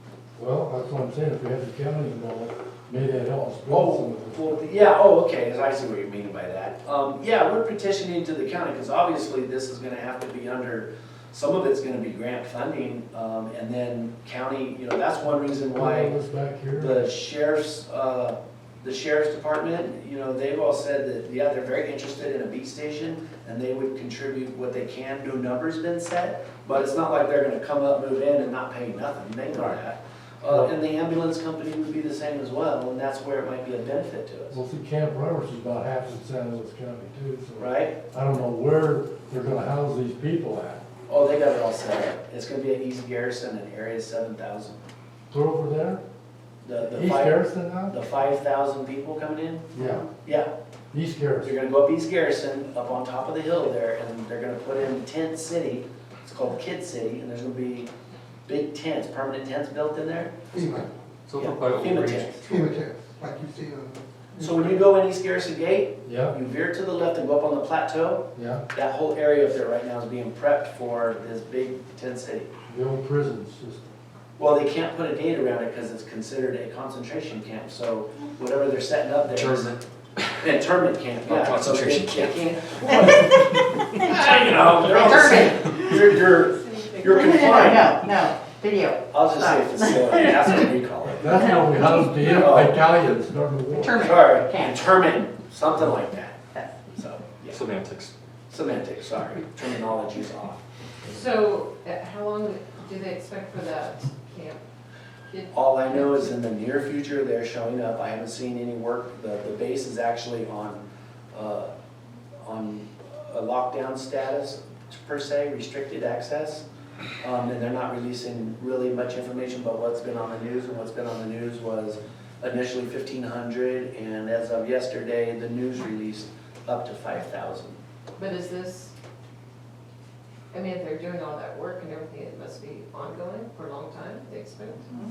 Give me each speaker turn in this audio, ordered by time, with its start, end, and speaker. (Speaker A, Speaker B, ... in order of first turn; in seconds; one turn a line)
Speaker A: 0.4-4.4
Speaker B: 3.7-16.1
Speaker A: 15.7-17.1
Speaker B: 16.8-34.6
Speaker A: 34.5-40.8
Speaker B: 37.6-38.0
Speaker B: 41.1-44.8
Speaker A: 45.3-46.0
Speaker B: 46.6-50.5
Speaker A: 46.9-47.9
Speaker A: 49.7-50.1
Speaker A: 50.9-51.5
Speaker B: 51.4-57.9
Speaker B: 58.5-60.3
Speaker C: 60.5-60.9
Speaker D: 61.3-62.4
Speaker B: 61.4-62.5
Speaker C: 62.4-64.6
Speaker B: 64.4-72.5
Speaker A: 66.0-66.3
Speaker A: 68.3-68.6
Speaker A: 72.7-73.9
Speaker B: 74.4-79.7
Speaker D: 79.3-80.3
Speaker B: 80.4-83.4
Speaker D: 81.2-83.6
Speaker B: 83.9-88.1
Speaker E: 84.9-85.7
Speaker E: 87.0-90.5
Speaker B: 89.1-91.4
Speaker A: 91.1-94.1
Speaker B: 92.2-92.8
Speaker E: 93.8-94.8
Speaker B: 94.0-97.6
Speaker D: 97.5-98.1
Speaker B: 98.5-100.6
Speaker F: 101.1-104.6
Speaker F: 105.3-106.1
Speaker B: 105.5-111.7
Speaker B: 112.4-116.6
Speaker B: 117.2-127.8
Speaker F: 128.2-128.9
Speaker F: 130.5-134.9